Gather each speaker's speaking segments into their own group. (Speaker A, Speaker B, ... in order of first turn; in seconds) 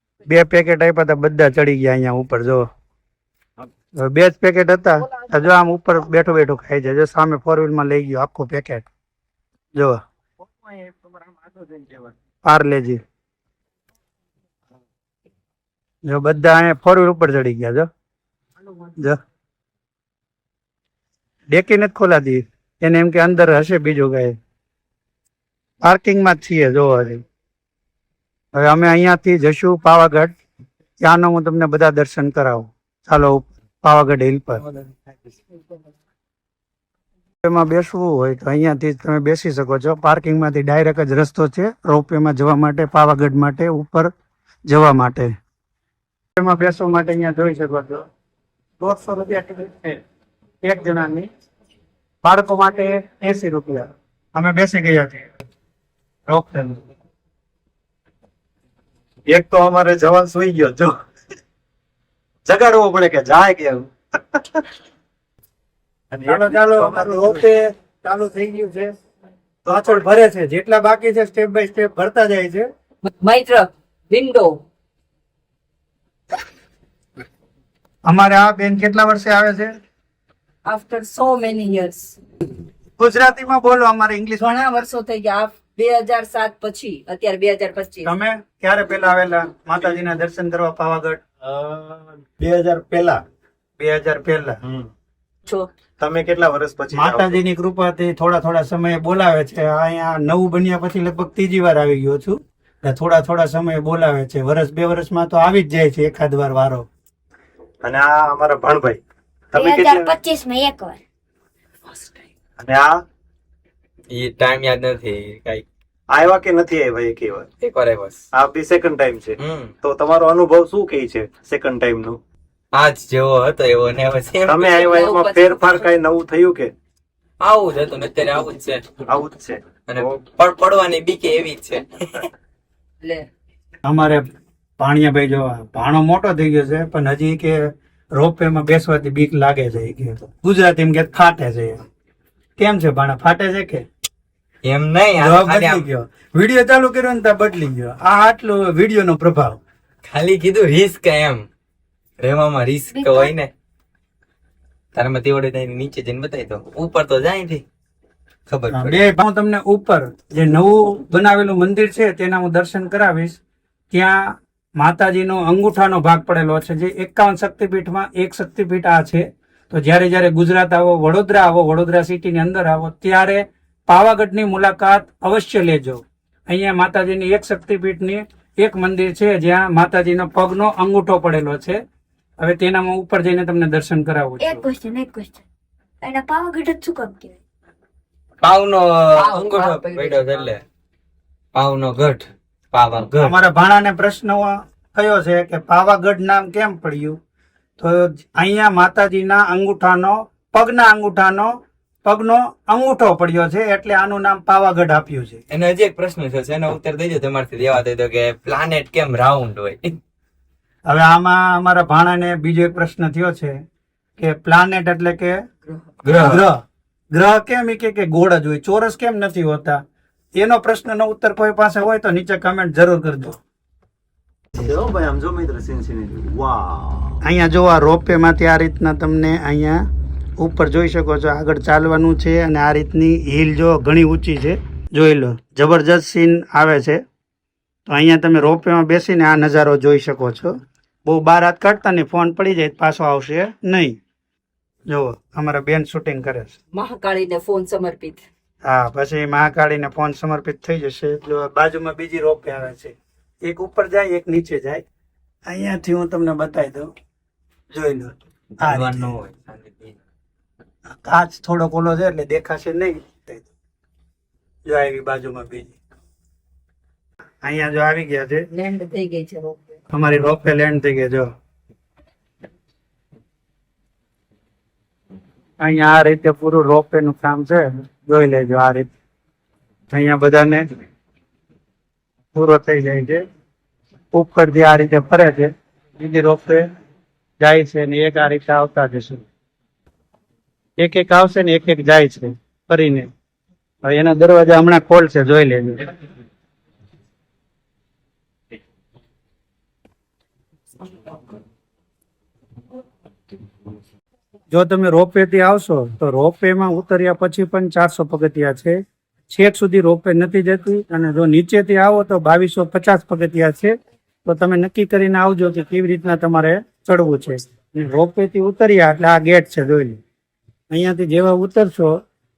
Speaker A: 0.3-2.6, 4.0-8.9, 12.4-13.0, 16.1-17.9, 21.5-24.4, 25.8-27.2, 28.5-30.3, 31.0-34.6, 37.4-44.1, 44.7-45.3, 46.4-48.0, 48.8-50.0, 50.6-51.3, 52.2-55.3, 56.3-56.8, 66.3-68.9, 69.7-72.7, 78.1-79.7, 83.0-84.6, 88.0-91.2, 93.8-94.6, 96.9-106.9, 133.8-134.2, 134.8-137.6, 138.2-141.8, 142.6-143.8, 145.2-149.6, 158.7-163.4, 163.9-164.2, 164.8-181.8, 182.4-184.6, 193.2-197.2, 197.8-205.4, 210.9-213.6, 214.2-215.4, 216.2-219.8, 220.3-223.4, 227.2-229.8, 230.4-237.0, 237.9-240.5, 241.1-244.0, 244.9-246.6, 248.6-254.8, 255.5-256.9, 257.7-259.2, 260.9-263.5, 264.7-265.8, 267.4-268.5, 269.9-271.3, 275.6-278.9, 279.9-280.7, 282.4-283.2, 284.1-286.7, 287.4-289.2, 290.8-293.1, 293.8-295.9, 304.5-308.8, 309.3-320.0, 320.7-321.9
Speaker B: 10.9-11.1, 11.7-11.9, 59.3-60.9, 62.5-64.6, 66.1-67.4, 69.7-70.0, 91.4-93.2, 94.6-94.9, 96.0-97.4, 107.8-109.0, 109.5-110.2, 112.6-113.0, 116.1-117.5, 118.3-122.2, 124.5-126.7, 129.1-130.2, 224.6-227.2
Speaker C: 73.0-74.6, 80.7-82.2, 84.4-88.1, 124.7-125.9, 133.0-133.3, 189.2-190.5, 246.7-248.2, 268.5-269.6
Speaker D: 109.5-111.0, 152.9-153.3, 184.4-185.4, 186.0-187.4
Speaker E: 114.1-115.7, 117.6-118.2, 119.4-119.7, 122.7-124.9, 127.4-128.8, 129.9-132.3, 144.6-145.8, 150.1-151.4, 152.2-153.5, 154.9-157.6, 158.5-159.0, 188.4-190.6, 191.6-193.3, 205.5-210.0, 216.0-216.4, 258.6-260.0